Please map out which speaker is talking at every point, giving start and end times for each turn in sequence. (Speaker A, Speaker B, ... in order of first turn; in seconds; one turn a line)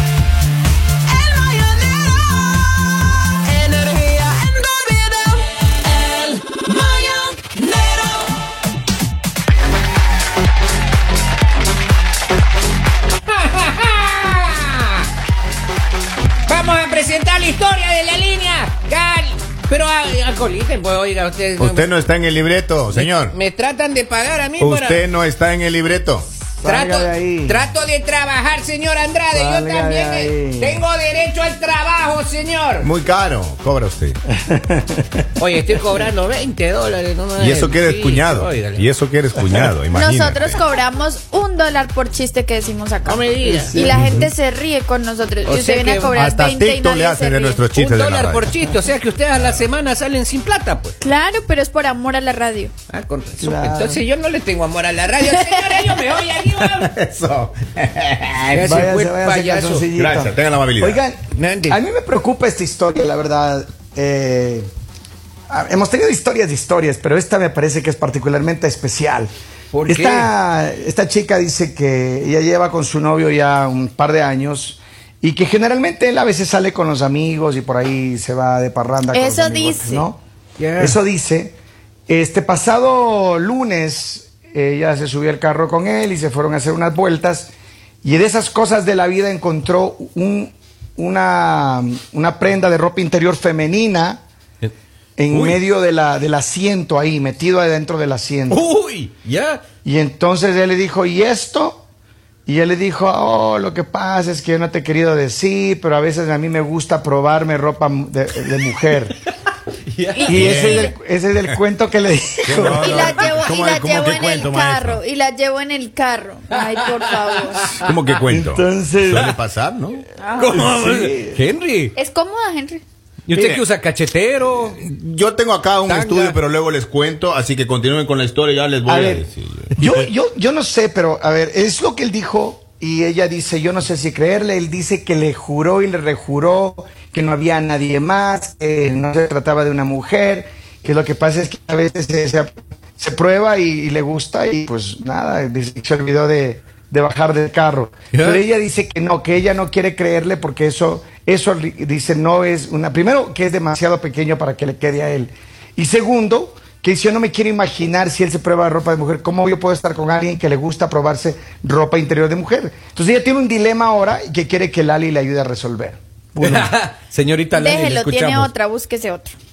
Speaker A: 1.1-2.4
Speaker A: 3.5-8.3
Speaker A: 13.3-15.1
Speaker A: 16.5-21.9
Speaker B: 21.6-23.3
Speaker A: 22.9-25.1
Speaker B: 24.6-26.3
Speaker C: 26.6-27.6
Speaker A: 26.6-32.9
Speaker C: 29.3-30.8
Speaker B: 32.8-34.2
Speaker C: 34.3-35.2
Speaker A: 35.4-38.9
Speaker B: 37.4-40.6
Speaker D: 39.9-47.6
Speaker A: 43.0-44.1
Speaker C: 43.6-44.3
Speaker A: 45.4-46.2
Speaker B: 46.1-48.5
Speaker A: 47.7-51.0
Speaker D: 51.0-52.7
Speaker A: 52.9-56.9
Speaker C: 53.4-54.0
Speaker D: 55.4-55.8
Speaker B: 56.6-58.8
Speaker A: 58.5-59.9
Speaker C: 58.6-64.7
Speaker B: 59.9-61.0
Speaker A: 61.3-61.8
Speaker C: 65.5-69.3
Speaker A: 69.7-70.3
Speaker C: 69.9-80.2
Speaker D: 79.1-80.0
Speaker A: 80.6-81.0
Speaker C: 80.8-81.5
Speaker C: 82.1-87.5
Speaker C: 88.0-94.2
Speaker C: 95.2-98.6
Speaker A: 95.3-95.6
Speaker A: 98.5-99.6
Speaker C: 99.8-101.8
Speaker C: 102.5-109.2
Speaker A: 109.9-110.5
Speaker D: 110.1-110.9
Speaker C: 110.2-113.2
Speaker B: 110.3-110.8
Speaker B: 112.5-115.0
Speaker D: 112.6-117.7
Speaker A: 117.2-117.9
Speaker B: 117.8-120.0
Speaker C: 118.3-119.4
Speaker D: 120.2-120.6
Speaker A: 120.4-121.9
Speaker C: 120.4-121.4
Speaker D: 121.9-122.8
Speaker A: 123.3-124.8
Speaker B: 123.3-123.6
Speaker B: 124.7-130.1
Speaker A: 125.8-126.4
Speaker C: 128.8-166.7
Speaker A: 148.1-148.4
Speaker A: 166.4-168.5
Speaker D: 167.5-169.3